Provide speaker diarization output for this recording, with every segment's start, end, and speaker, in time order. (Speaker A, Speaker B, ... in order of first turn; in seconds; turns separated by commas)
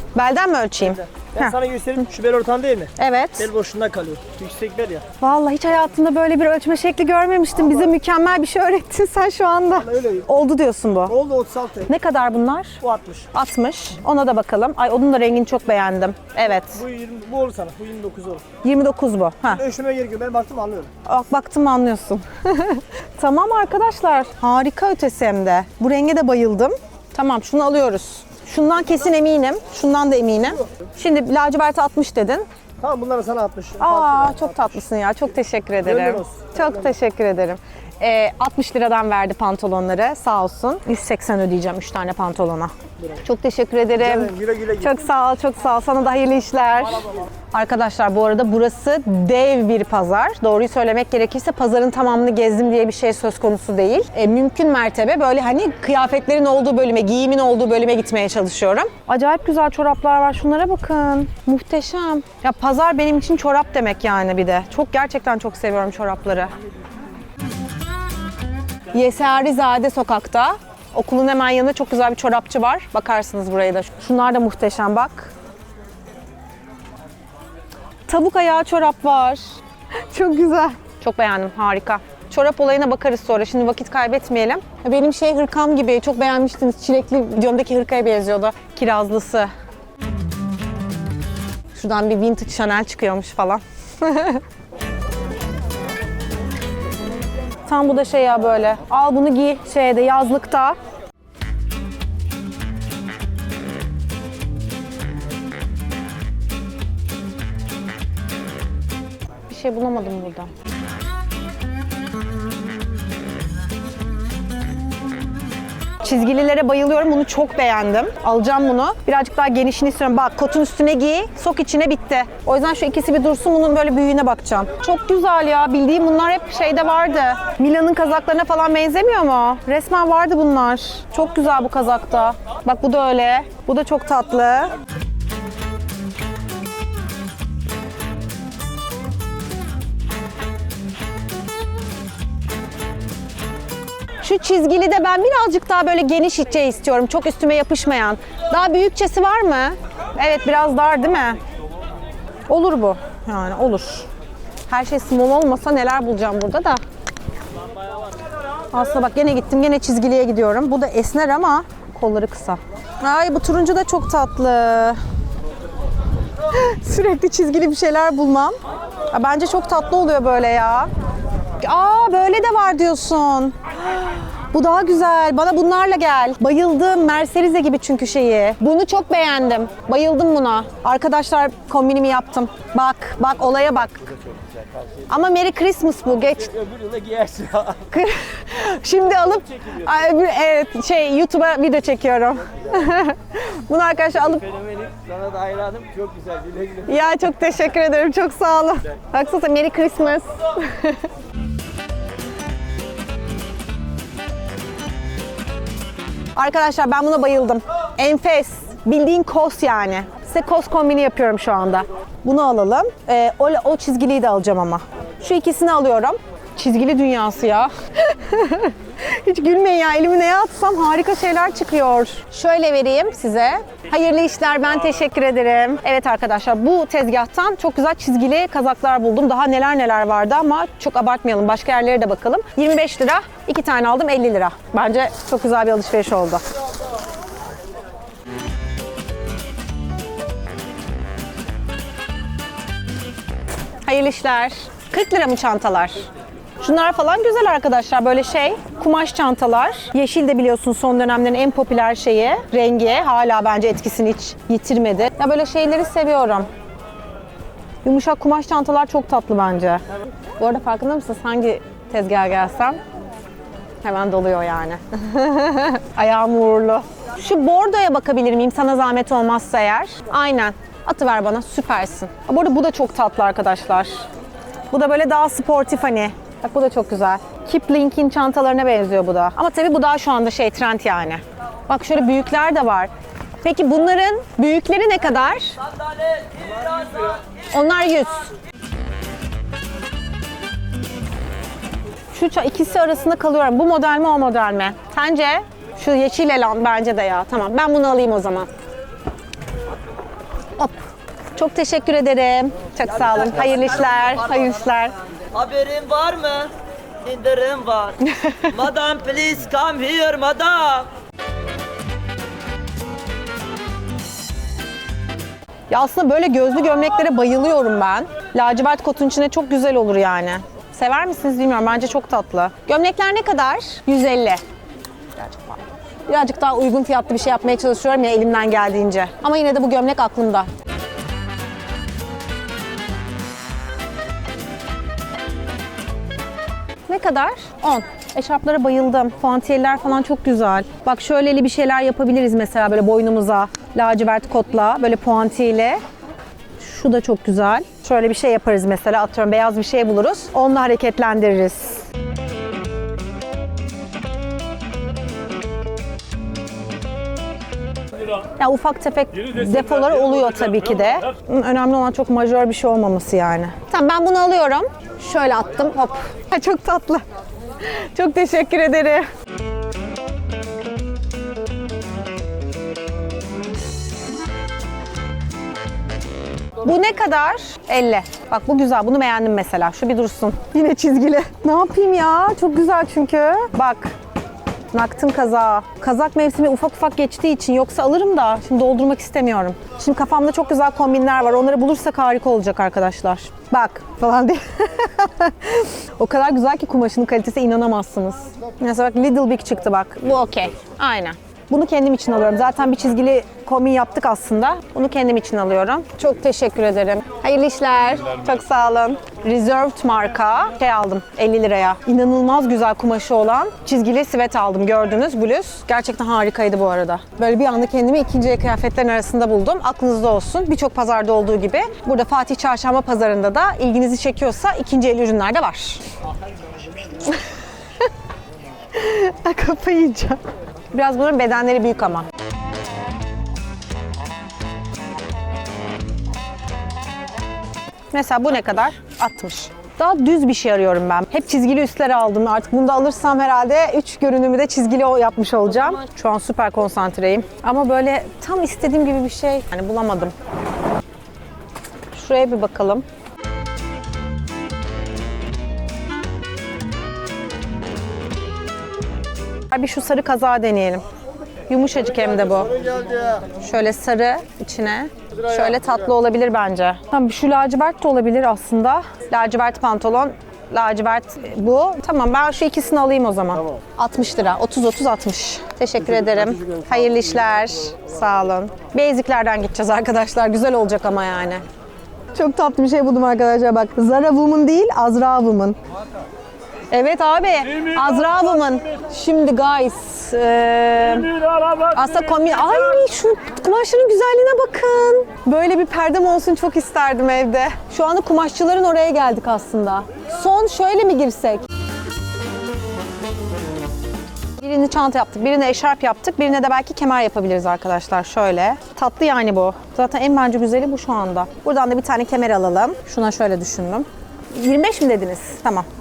Speaker A: 0.2-1.6, Speaker B: 1.1-5.1, Speaker A: 3.0-3.5, Speaker A: 5.2-11.2, Speaker B: 9.8-10.2, Speaker B: 11.1-11.9, Speaker A: 11.9-12.8, Speaker B: 12.8-13.3, Speaker A: 13.3-16.8, Speaker B: 16.7-18.4, Speaker A: 18.6-19.6, Speaker B: 19.5-20.9, Speaker A: 21.1-32.5, Speaker B: 32.8-34.8, Speaker A: 33.8-42.7, Speaker B: 35.8-36.9, Speaker A: 43.2-66.5, Speaker B: 44.0-45.0, Speaker A: 68.9-75.3, Speaker A: 78.1-79.6, Speaker A: 80.1-89.5, Speaker A: 91.8-94.4, Speaker A: 97.7-100.8, Speaker A: 109.5-110.5, Speaker A: 116.0-134.7, Speaker A: 144.2-151.4, Speaker A: 152.5-154.1, Speaker A: 154.7-156.8, Speaker A: 158.7-165.0, Speaker A: 166.5-168.6, Speaker A: 169.1-170.9, Speaker A: 171.6-184.1, Speaker A: 185.1-186.5, Speaker B: 186.5-187.8, Speaker A: 187.9-194.5, Speaker B: 194.6-196.9, Speaker A: 196.9-201.0, Speaker A: 206.4-236.4, Speaker A: 243.8-246.1, Speaker A: 246.6-256.5, Speaker A: 257.8-259.8, Speaker A: 260.4-262.8, Speaker A: 263.8-274.1, Speaker A: 274.7-282.9, Speaker A: 283.4-285.6, Speaker C: 286.4-287.1, Speaker A: 287.5-288.3, Speaker A: 292.1-298.5, Speaker A: 300.6-304.9, Speaker C: 303.2-304.4, Speaker C: 305.3-306.5, Speaker C: 307.0-308.0, Speaker A: 308.0-308.5, Speaker C: 308.5-310.9, Speaker A: 315.7-324.4, Speaker A: 325.2-330.5, Speaker A: 336.9-345.8, Speaker A: 346.6-351.9, Speaker A: 358.4-367.0, Speaker A: 367.6-369.1, Speaker A: 376.6-383.9, Speaker A: 384.7-425.8, Speaker A: 426.9-427.2, Speaker A: 428.7-430.2, Speaker A: 430.7-432.1, Speaker A: 437.9-450.1, Speaker A: 451.9-452.9, Speaker A: 459.5-460.8, Speaker A: 461.5-481.4, Speaker A: 482.1-485.6, Speaker A: 486.7-501.4, Speaker A: 504.4-515.7